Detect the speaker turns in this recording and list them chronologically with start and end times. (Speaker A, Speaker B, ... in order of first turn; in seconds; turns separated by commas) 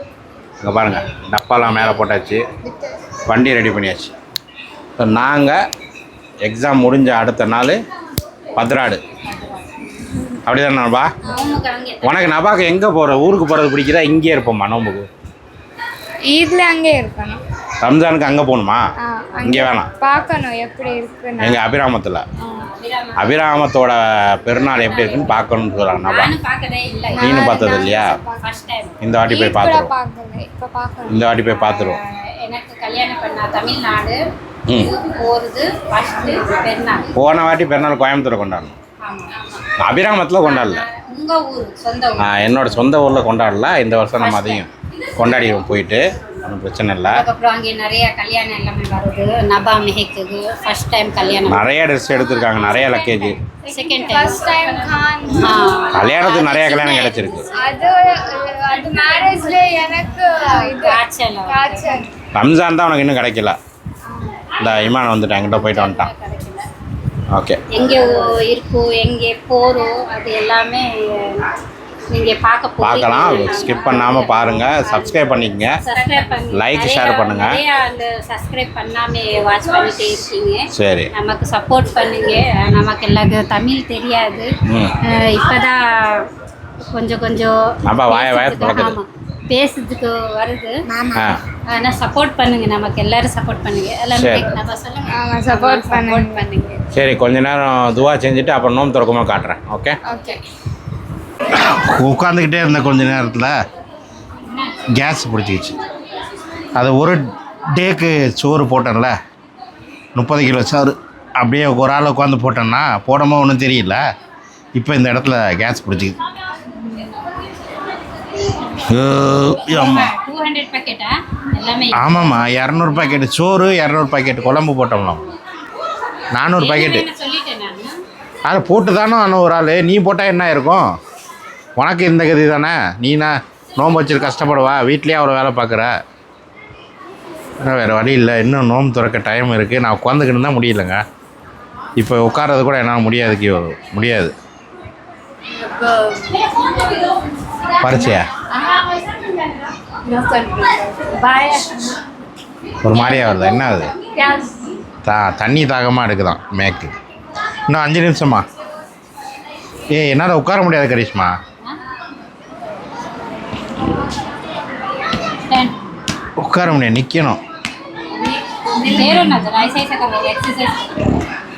Speaker A: 0.6-2.4, Speaker A: 3.3-4.1, Speaker A: 5.0-5.6, Speaker A: 6.4-7.8, Speaker A: 8.6-9.0, Speaker B: 9.3-9.6, Speaker A: 10.4-11.1, Speaker B: 11.2-12.3, Speaker A: 12.0-15.1, Speaker C: 16.3-17.4, Speaker A: 17.8-18.8, Speaker C: 19.0-21.6, Speaker A: 19.4-19.9, Speaker A: 21.4-22.2, Speaker B: 22.5-23.5, Speaker A: 23.2-26.3, Speaker B: 24.5-29.0, Speaker C: 27.1-28.4, Speaker A: 27.2-28.1, Speaker A: 29.0-29.9, Speaker C: 29.2-31.2, Speaker A: 31.1-32.0, Speaker B: 31.5-34.2, Speaker A: 34.7-34.9, Speaker B: 34.7-37.1, Speaker A: 37.1-38.8, Speaker B: 39.0-39.7, Speaker A: 39.8-40.9, Speaker B: 40.4-42.9, Speaker A: 42.2-47.2, Speaker B: 44.2-44.6, Speaker B: 47.1-51.6, Speaker A: 51.5-53.4, Speaker C: 52.5-55.7, Speaker B: 53.6-57.6, Speaker A: 55.9-57.5, Speaker C: 57.5-62.1, Speaker B: 59.0-59.4, Speaker B: 60.5-62.0, Speaker A: 62.3-63.6, Speaker A: 64.6-66.1, Speaker B: 65.3-66.7, Speaker A: 67.3-67.7, Speaker B: 67.7-71.5, Speaker B: 72.1-86.3, Speaker A: 72.8-75.8, Speaker A: 76.5-77.6, Speaker A: 80.7-81.1, Speaker A: 84.7-85.0, Speaker B: 86.8-90.8, Speaker A: 87.8-89.0, Speaker C: 90.9-91.3, Speaker B: 91.7-96.8, Speaker A: 94.1-94.5, Speaker C: 95.1-96.4, Speaker A: 96.9-100.0, Speaker C: 100.0-100.4, Speaker A: 101.5-103.6, Speaker B: 104.4-104.8, Speaker A: 104.9-105.8, Speaker A: 106.7-109.2, Speaker A: 110.1-114.0, Speaker A: 114.7-116.2, Speaker A: 118.8-120.1, Speaker B: 119.7-122.4, Speaker A: 121.9-125.3, Speaker A: 126.3-127.1, Speaker B: 126.5-128.0, Speaker A: 128.4-130.9, Speaker A: 131.8-136.0, Speaker A: 137.6-141.0, Speaker A: 141.9-144.3, Speaker B: 145.5-146.9, Speaker A: 147.8-148.3, Speaker B: 148.5-149.3, Speaker B: 149.9-152.0, Speaker A: 152.8-153.9, Speaker B: 152.9-154.6, Speaker A: 155.0-156.9, Speaker A: 157.7-158.4, Speaker A: 159.9-161.3, Speaker B: 165.4-165.8, Speaker A: 166.4-167.4, Speaker B: 168.1-171.2